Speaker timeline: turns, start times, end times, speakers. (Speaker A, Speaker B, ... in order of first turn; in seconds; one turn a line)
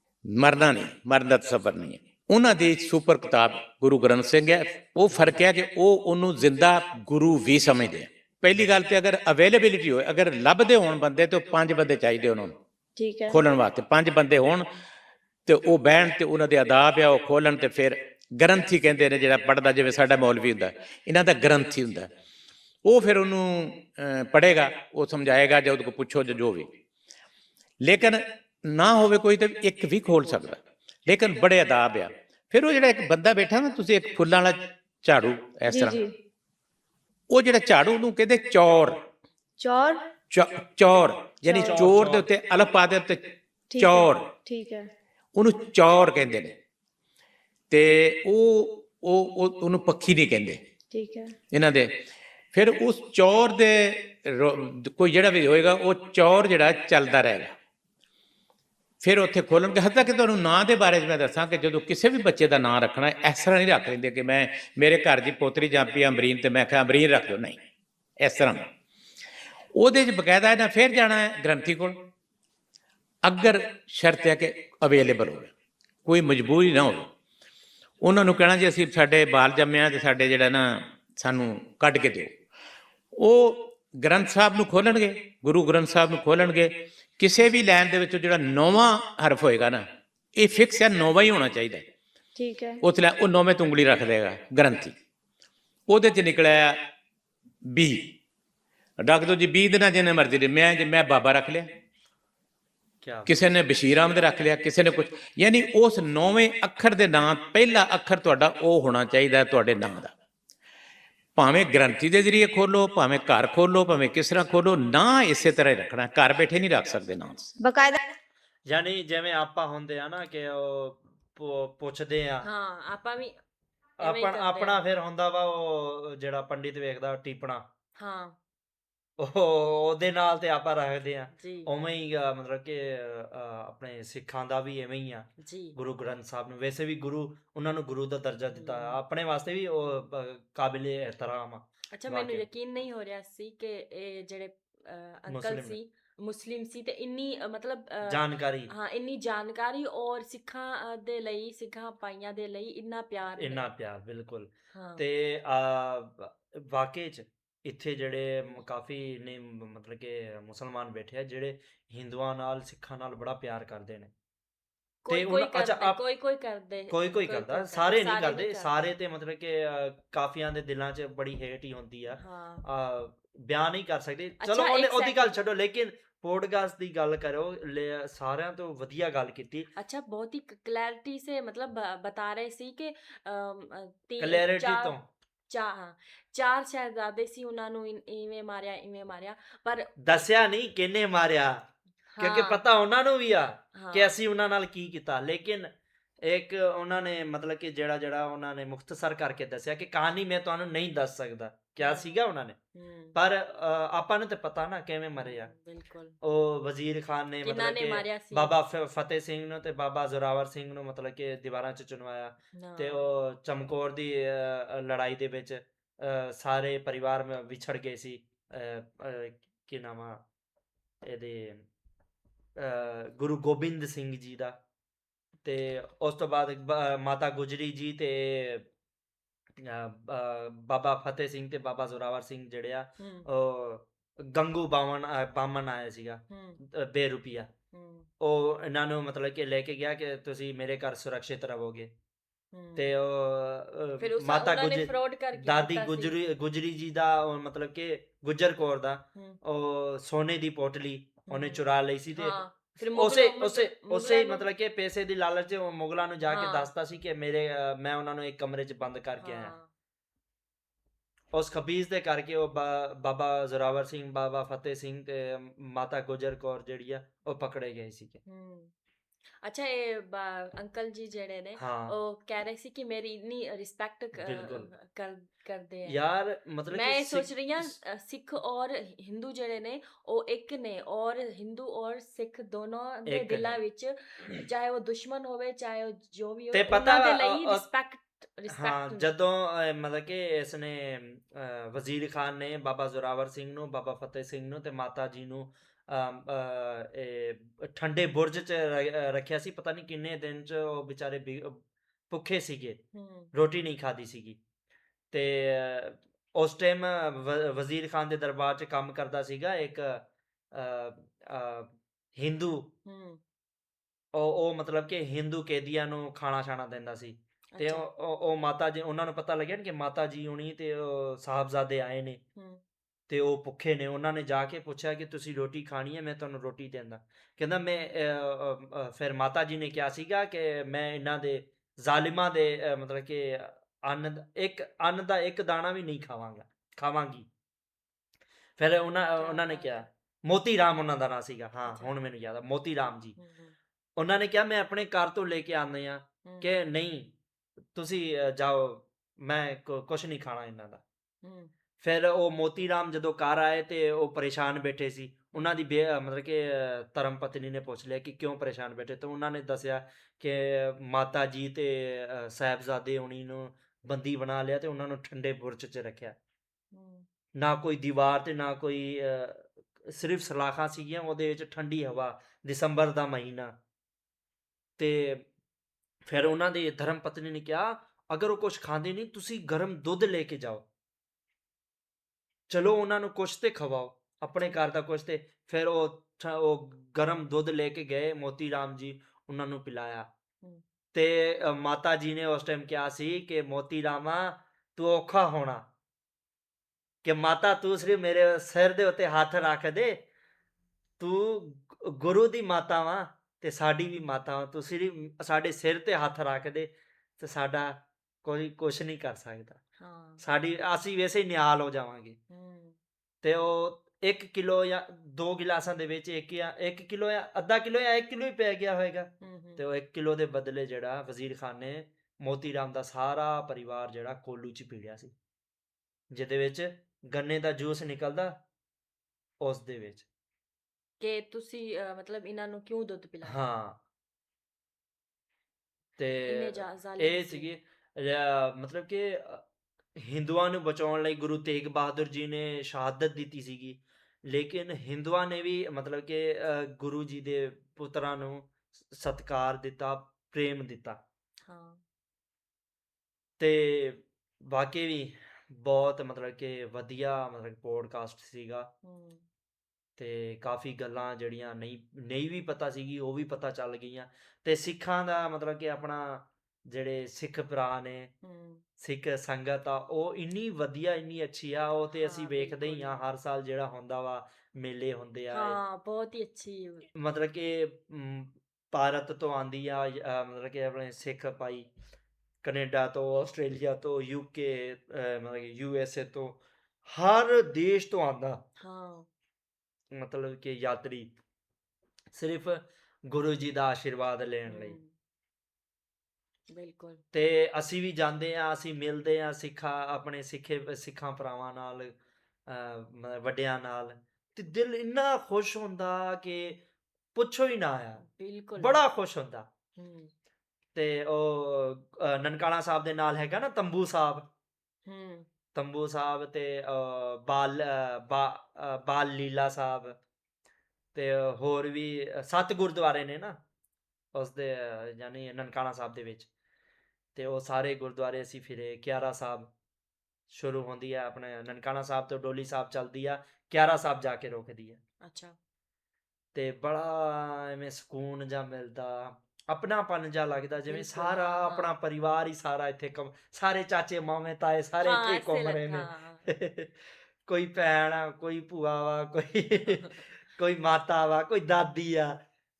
Speaker A: 0.3-12.6
Speaker B: 13.0-13.4
Speaker A: 13.3-14.7
Speaker A: 15.5-22.1
Speaker A: 22.9-26.7
Speaker A: 27.8-36.0
Speaker B: 35.7-36.1
Speaker A: 37.3-39.0
Speaker B: 39.6-40.0
Speaker A: 40.3-44.3
Speaker C: 41.5-42.3
Speaker B: 43.7-44.9
Speaker A: 45.4-46.5
Speaker A: 47.7-50.6
Speaker B: 50.9-51.4
Speaker A: 51.5-52.0
Speaker A: 52.5-57.5
Speaker A: 59.0-67.6
Speaker A: 68.2-68.7
Speaker A: 69.8-72.0
Speaker A: 73.2-75.5
Speaker A: 76.1-77.1
Speaker A: 78.0-82.3
Speaker A: 83.2-91.9
Speaker B: 92.4-92.8
Speaker A: 92.8-95.0
Speaker A: 95.9-96.8
Speaker A: 97.7-98.1
Speaker A: 99.0-101.7
Speaker C: 103.0-103.4
Speaker A: 103.3-110.1
Speaker A: 111.4-117.6
Speaker B: 117.6-118.0
Speaker C: 118.7-122.5
Speaker D: 122.4-123.4
Speaker D: 124.0-124.8
Speaker C: 124.0-127.6
Speaker D: 128.0-128.4
Speaker C: 129.2-142.4
Speaker D: 131.4-131.7
Speaker D: 135.4-135.8
Speaker D: 138.5-139.0
Speaker D: 141.9-153.7
Speaker C: 145.3-145.8
Speaker C: 148.1-148.7
Speaker C: 153.4-164.1
Speaker D: 154.7-155.0
Speaker D: 165.1-168.8
Speaker C: 165.1-166.0
Speaker C: 166.9-179.7
Speaker D: 172.2-172.7
Speaker D: 174.4-175.3
Speaker D: 179.8-184.9
Speaker C: 184.2-185.0
Speaker D: 185.5-189.9
Speaker C: 190.0-191.7
Speaker D: 192.1-192.6
Speaker C: 192.2-202.6
Speaker D: 193.8-194.1
Speaker D: 201.8-202.1
Speaker D: 202.8-203.2
Speaker C: 203.2-205.5
Speaker D: 205.2-206.2
Speaker C: 206.2-220.2
Speaker D: 207.4-208.6
Speaker D: 212.6-213.1
Speaker C: 221.0-221.7
Speaker C: 222.6-224.6
Speaker C: 225.4-228.7
Speaker C: 229.6-237.5
Speaker D: 233.0-233.3
Speaker D: 236.3-236.6
Speaker D: 237.7-238.1
Speaker C: 238.2-241.9
Speaker D: 242.5-242.9
Speaker C: 242.8-252.4
Speaker D: 244.0-246.2
Speaker D: 249.2-249.4
Speaker D: 251.3-251.6
Speaker D: 252.2-254.5
Speaker C: 252.9-259.5
Speaker D: 256.3-256.7
Speaker D: 259.2-259.7
Speaker C: 261.3-268.2
Speaker D: 268.3-268.7
Speaker D: 269.4-276.0
Speaker C: 271.6-271.9
Speaker C: 274.2-274.7
Speaker C: 275.9-277.7
Speaker D: 276.7-289.1
Speaker C: 283.1-283.6
Speaker C: 286.5-287.6
Speaker C: 288.5-302.8
Speaker D: 302.9-303.3
Speaker C: 303.3-304.4
Speaker C: 305.1-312.7
Speaker D: 312.9-313.2
Speaker C: 314.1-322.2
Speaker D: 317.5-317.9
Speaker C: 323.1-337.3
Speaker C: 338.6-343.2
Speaker D: 339.2-339.8
Speaker D: 341.7-341.9
Speaker D: 343.2-343.6
Speaker C: 344.0-347.1
Speaker D: 346.2-346.5
Speaker C: 347.7-350.8
Speaker D: 351.2-351.5
Speaker C: 351.8-366.1
Speaker D: 366.7-367.1
Speaker C: 367.4-373.6
Speaker C: 374.8-375.3
Speaker C: 376.1-380.6
Speaker C: 382.5-390.1
Speaker C: 390.9-395.6
Speaker C: 397.0-400.0
Speaker C: 401.0-409.6
Speaker D: 409.8-410.2
Speaker C: 410.2-412.2
Speaker D: 412.3-412.8
Speaker C: 413.2-425.1
Speaker D: 419.2-419.6
Speaker C: 426.1-428.4
Speaker C: 429.4-430.1
Speaker D: 431.0-433.4
Speaker C: 433.3-433.8
Speaker C: 436.0-439.4
Speaker D: 436.2-437.5
Speaker C: 440.0-451.0
Speaker D: 451.4-451.8
Speaker C: 453.4-458.7
Speaker D: 458.8-459.2
Speaker C: 460.0-468.1
Speaker D: 468.2-468.6
Speaker C: 468.8-475.6
Speaker D: 471.9-473.0
Speaker D: 475.3-476.9
Speaker C: 477.0-481.7
Speaker C: 482.4-488.4
Speaker D: 488.6-489.1
Speaker C: 489.9-491.1
Speaker C: 492.1-494.8
Speaker D: 494.5-494.9
Speaker D: 496.5-497.0
Speaker C: 497.1-502.0
Speaker C: 502.5-506.6
Speaker C: 507.1-508.0
Speaker D: 508.0-508.8
Speaker C: 508.6-509.5
Speaker D: 509.8-510.1
Speaker C: 510.8-514.3
Speaker D: 514.9-515.3
Speaker C: 515.5-520.0
Speaker C: 521.0-523.4
Speaker C: 524.1-526.3
Speaker C: 527.2-529.5
Speaker C: 530.3-534.8
Speaker D: 535.0-535.4
Speaker C: 536.3-546.7
Speaker D: 540.7-541.7
Speaker D: 544.8-546.3
Speaker C: 547.3-552.2
Speaker D: 549.7-550.0